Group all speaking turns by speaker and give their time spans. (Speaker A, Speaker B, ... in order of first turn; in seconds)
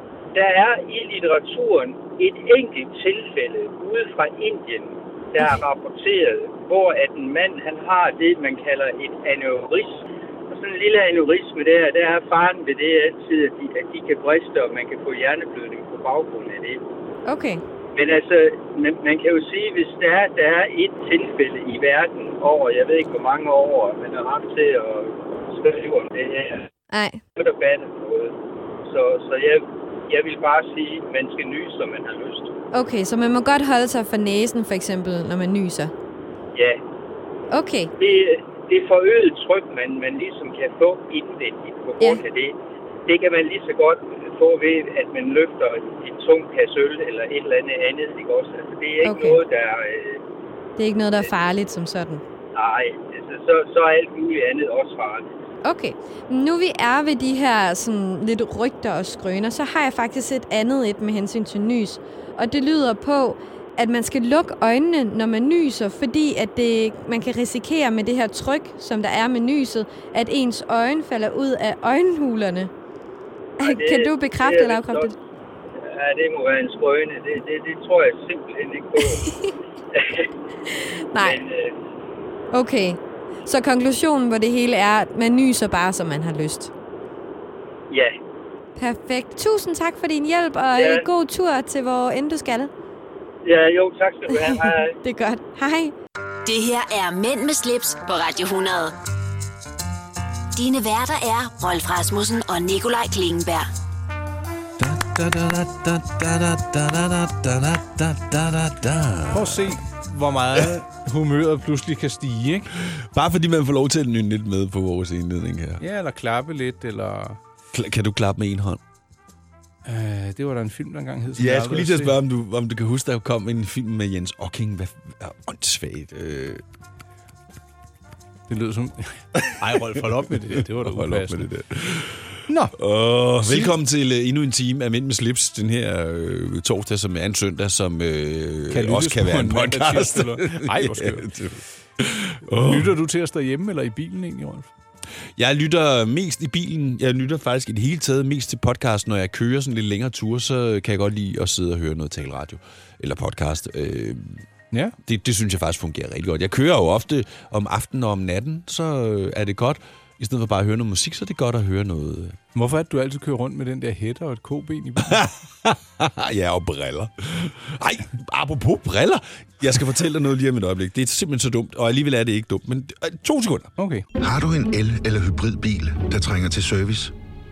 Speaker A: 0.3-16.8, 17.9-26.7, 27.4-32.5, 36.5-36.8, 38.0-50.2, 52.5-55.4, 73.6-75.1, 75.8-79.2, 79.9-80.3, 81.2-81.7, 87.9-88.2, 90.7-91.1, 93.4-95.0
Speaker B: 17.2-17.6, 26.9-27.2, 32.7-35.9, 37.5-37.9, 49.0-49.4, 50.8-52.2, 55.6-72.7, 73.6-75.1, 79.2-79.5, 80.7-81.4, 82.5-86.7, 88.8-92.7, 94.3-95.9
Speaker C: 96.4-98.9, 100.5-103.7
Speaker D: 104.8-109.7, 112.8-115.8, 117.7-118.8, 121.4-126.6, 129.4-142.9, 145.4-154.4, 155.0-162.4, 165.0-173.7
Speaker E: 109.3-112.7, 115.8-117.4, 119.8-122.2, 128.5-131.4, 132.5-132.7, 133.4-133.7, 138.7-141.3, 142.5-144.7, 162.5-165.3, 173.8-174.0
Speaker F: 174.2-177.1